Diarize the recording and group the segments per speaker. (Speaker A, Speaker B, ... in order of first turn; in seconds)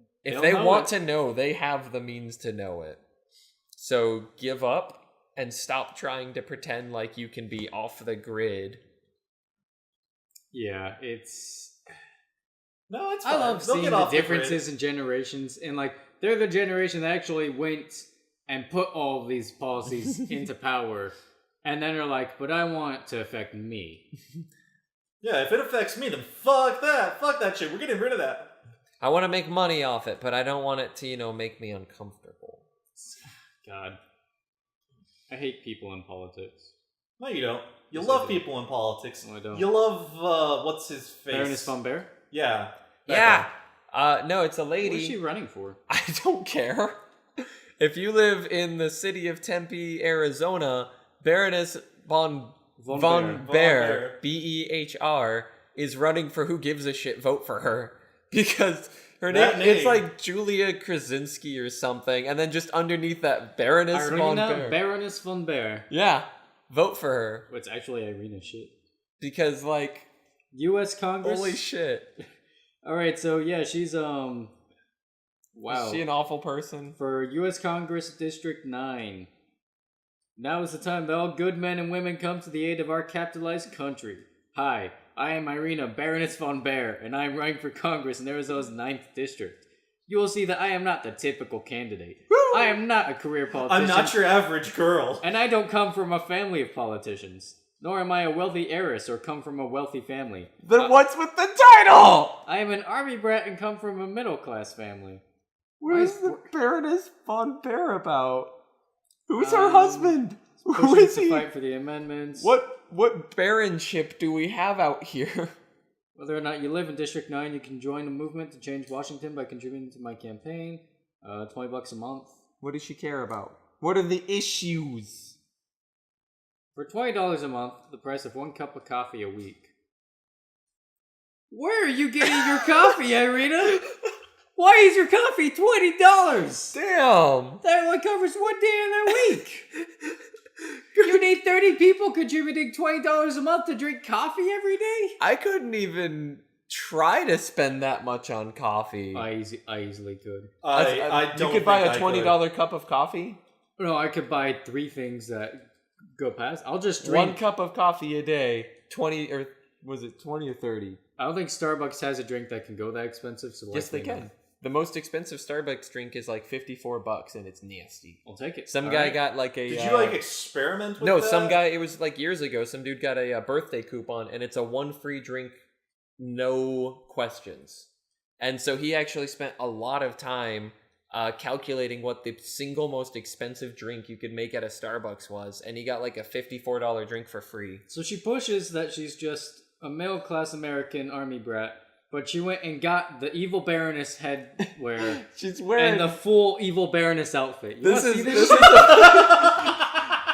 Speaker A: 0.2-3.0, 3.8-8.8, 29.0-32.6, 43.1-45.2, 45.9-47.0, 47.8-64.8, 65.9-67.5, 69.2-70.1, 71.2-72.1, 75.7-77.0, 92.3-92.8, 100.6-102.4, 105.8-108.5, 109.3-111.5, 112.4-115.5, 122.6-125.4, 132.3-132.7, 136.7-137.6, 145.2-149.3, 150.7-153.4, 157.0-161.0, 163.7-170.2, 171.0-175.6, 176.2-177.9, 178.4-187.8, 194.7-196.2, 197.8-199.7
Speaker B: 0.3-0.9, 10.5-11.8, 13.2-24.0, 33.0-34.0, 35.3-36.7, 37.9-38.5, 39.2-39.7, 41.3-42.1, 43.1-43.5, 44.8-45.8, 52.8-53.4, 63.9-65.9, 67.5-68.7, 70.5-71.6, 72.8-74.5, 75.5-76.0, 77.0-79.3, 80.4-94.2, 95.2-101.0, 102.5-105.2, 105.9-106.5, 109.4-110.2, 110.7-112.5, 116.2-122.4, 126.8-129.7, 131.5-133.8, 134.6-136.8, 137.6-139.7, 141.0-145.2, 149.1-150.5, 153.8-155.6, 156.2-157.4, 161.2-164.3, 168.2-169.2, 187.9-195.2, 195.8-199.2
Speaker C: 12.9-14.6, 25.2-28.5, 37.2-41.8, 42.3-42.7, 53.4-54.2, 59.3-60.1, 93.7-95.2, 150.6-152.4, 169.7-171.6, 198.4-199.9